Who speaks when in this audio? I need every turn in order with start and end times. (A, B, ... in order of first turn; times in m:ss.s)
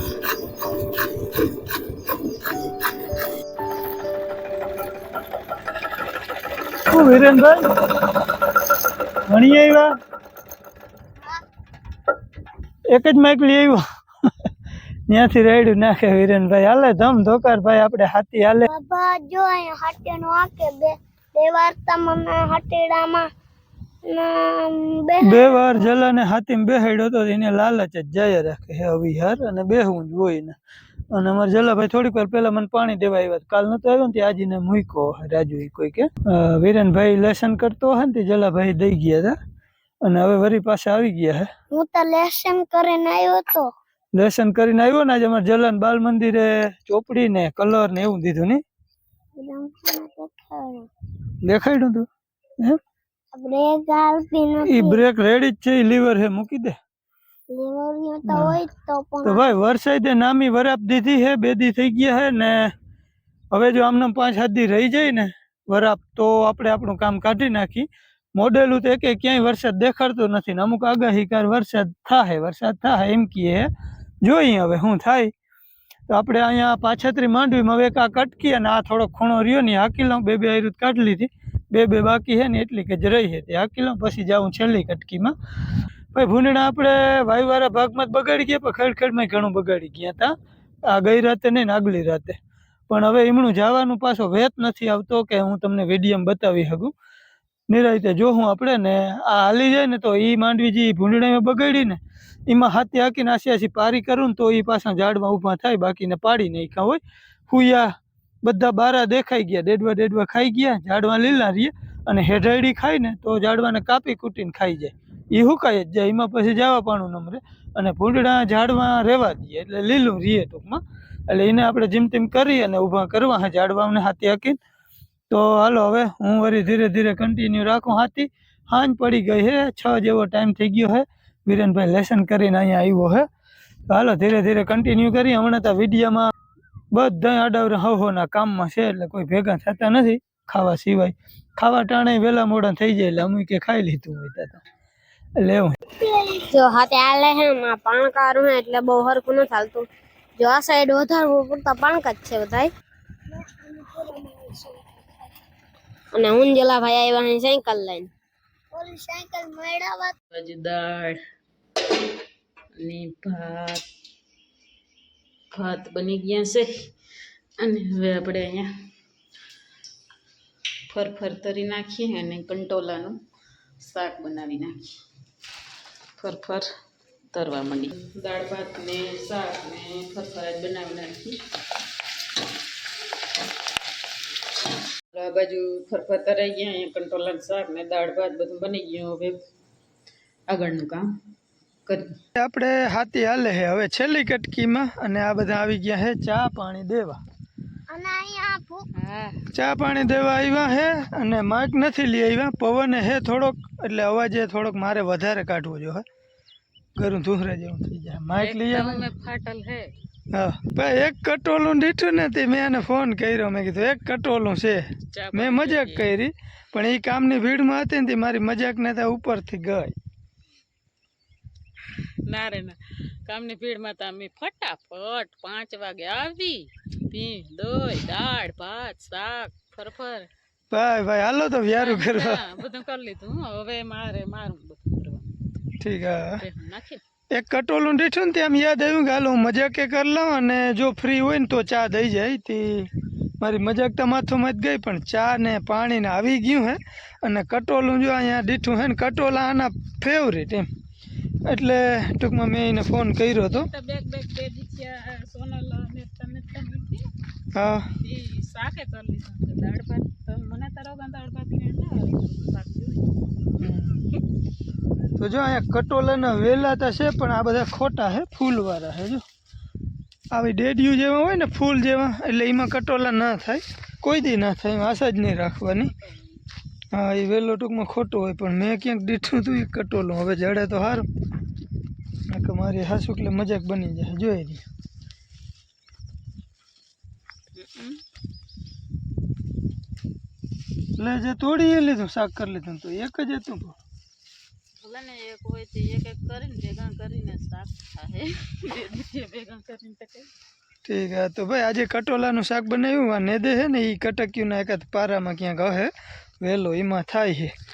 0:06.9-0:07.6 A
0:09.3-0:09.9 A
0:12.9-0:13.8 A
0:15.1-0:18.7 A
0:18.7-0:23.3 B
0:24.1-0:25.8 B
0:25.2-0:30.6 A
0:31.1-0:39.4 A
0:40.0-0:41.5 A
0:41.7-0:43.7 B
0:44.1-0:48.6 A
0:49.4-0:50.9 B
0:51.4-0:52.1 A
0:53.3-0:55.0 B
0:54.6-0:56.8 A
0:57.5-0:59.4 B
0:58.3-0:58.6 A
0:59.2-1:02.7 A
1:03.5-1:13.7 A
1:14.2-1:15.3 A
1:16.1-1:25.4 A
1:26.1-1:30.3 A
1:30.9-1:32.4 A
1:32.9-1:36.9 A
1:37.7-1:47.9 A
1:48.4-2:04.6 A
2:05.3-2:13.3 A
2:13.9-2:16.3 A
2:16.9-2:24.6 A
2:25.4-2:25.8 A
2:26.5-2:29.9 C
2:30.4-2:32.7 C
2:33.3-2:35.0 B
2:36.1-2:38.1 C
2:38.7-2:40.2 B
2:40.3-2:41.2 D
2:42.8-2:43.8 D
2:45.5-2:46.7 D
2:47.6-2:48.7 D
2:50.9-2:53.2 D
2:53.8-2:55.0 D
2:56.2-2:56.7 D
2:57.3-3:01.4 D
3:05.1-3:09.4 D
3:10.5-3:11.0 D
3:12.4-3:17.2 A
3:17.9-3:18.9 B
3:19.0-3:19.4 D
3:19.5-3:26.0 A
3:27.0-3:29.1 A
3:28.4-3:29.9 D
3:30.3-3:40.0 A
3:35.1-3:36.1 D
3:42.3-3:50.3 D
3:50.7-3:52.4 A
3:51.7-3:55.4 D
3:55.8-3:56.4 A
3:56.4-3:57.0 D
3:57.3-4:10.7 A
4:11.5-4:13.7 A
4:13.5-4:17.1 D
4:17.5-4:17.9 A
4:18.0-4:23.1 D
4:23.6-4:24.0 A
4:25.2-4:29.2 A
4:30.3-4:35.9 A
4:36.9-4:41.1 A
4:42.3-4:44.6 A
4:47.6-4:48.0 D
4:51.0-4:53.8 A
4:54.8-5:00.3 D
5:00.8-5:07.5 A